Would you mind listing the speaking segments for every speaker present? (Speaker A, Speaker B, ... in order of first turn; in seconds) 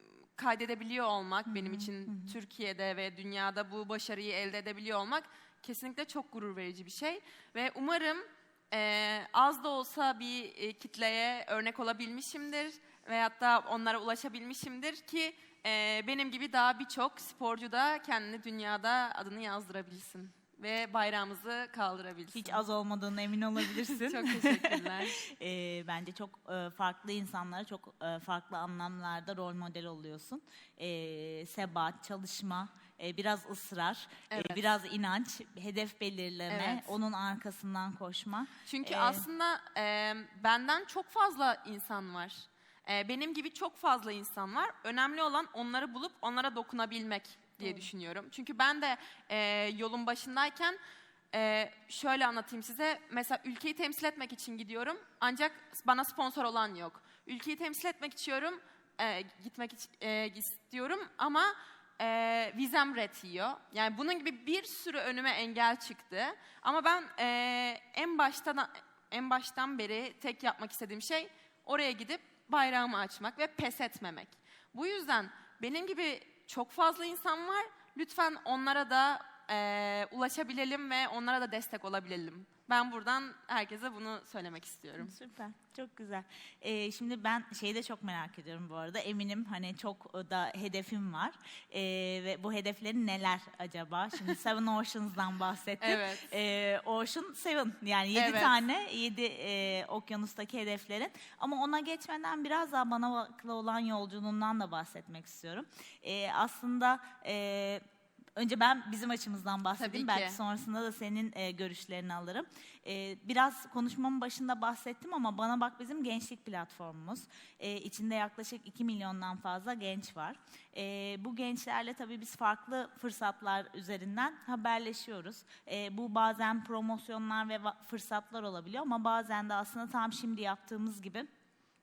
Speaker A: 0.4-22.6, 24.1-25.2, 34.3-34.6, 36.5-36.9, 38.7-50.8, 51.3-85.1, 95.8-96.3, 98.1-98.5, 109.8-110.4
Speaker B: 1.5-2.3, 22.3-39.2, 47.6-47.9, 85.0-107.8, 108.3-131.3